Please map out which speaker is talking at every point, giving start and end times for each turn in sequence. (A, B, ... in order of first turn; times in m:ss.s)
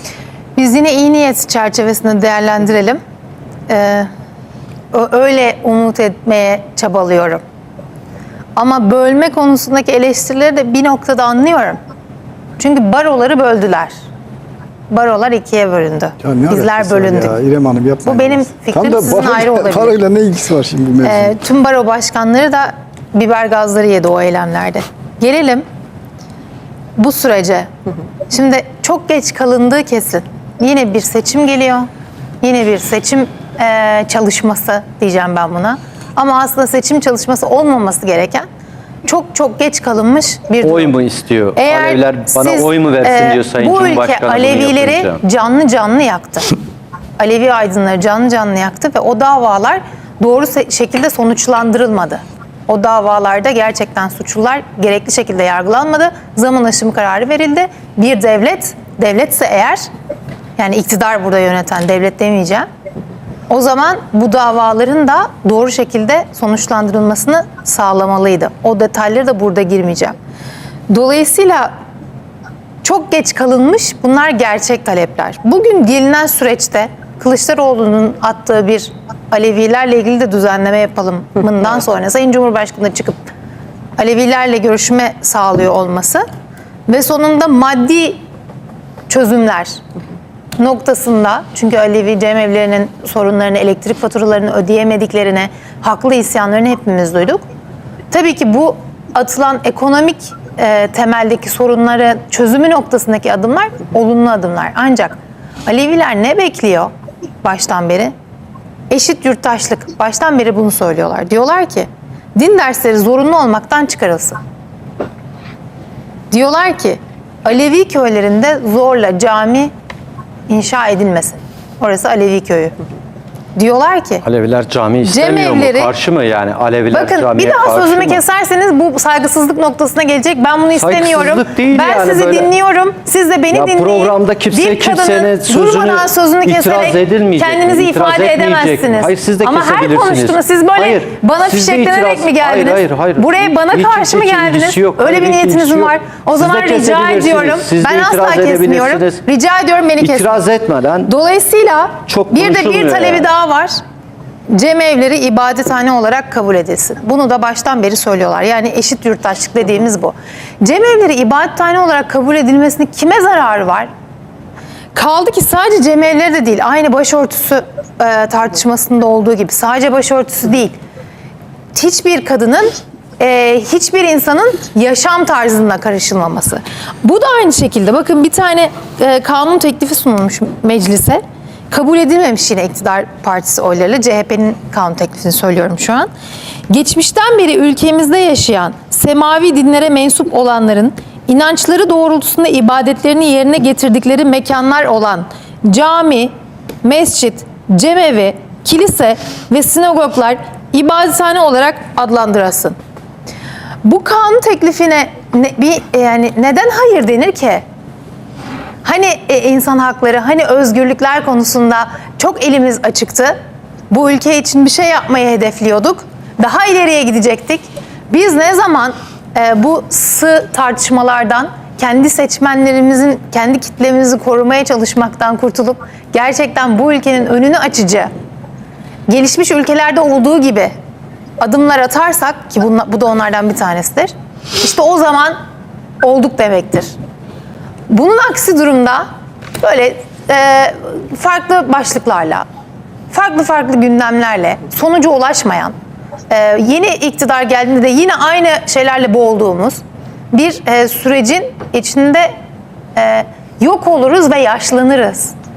0:00.6-0:03.0 A
0:03.7-0:04.1 A
0:04.9-0:07.4 A
0:08.6-0:11.8 A
0:12.6-0:13.9 A
0:14.9-0:17.4 A
0:16.2-0:21.3 B
0:18.0-0:20.0 A
0:21.0-0:25.6 A
0:27.0-0:27.7 A
0:28.3-0:31.9 A
0:32.4-0:38.4 A
0:39.0-0:41.0 A
0:40.6-0:45.2 C
0:41.6-0:46.6 A
0:47.2-0:59.8 A
1:00.6-1:02.7 A
1:03.5-1:10.2 A
1:10.9-1:11.7 A
1:12.8-1:23.2 A
1:24.0-1:26.2 A
1:26.9-1:28.2 A
1:29.1-1:29.8 A
1:30.6-1:37.4 A
1:38.1-1:46.9 A
1:47.4-1:48.1 A
1:48.9-1:54.4 A
1:56.3-1:59.7 A
2:00.5-2:02.7 A
2:03.6-2:04.2 A
2:04.2-2:08.2 C
2:05.0-2:05.9 A
2:06.9-2:30.4 A
2:10.7-2:12.5 C
2:13.5-2:29.2 C
2:30.0-2:31.1 C
2:31.0-2:33.7 A
2:32.0-2:33.3 C
2:34.5-2:43.9 A
2:44.9-2:50.8 A
2:51.7-3:06.1 A
3:06.7-3:16.3 A
3:16.8-3:22.8 A
3:23.8-3:27.6 A
3:28.8-3:33.3 A
3:33.9-3:48.1 A
3:49.1-3:50.7 A
3:51.4-3:55.4 A
3:56.0-3:56.9 A
3:57.9-3:59.0 A
3:59.6-4:02.4 A
4:03.1-4:05.7 A
4:06.3-4:09.8 A
4:10.3-4:12.3 A
4:13.0-4:15.3 A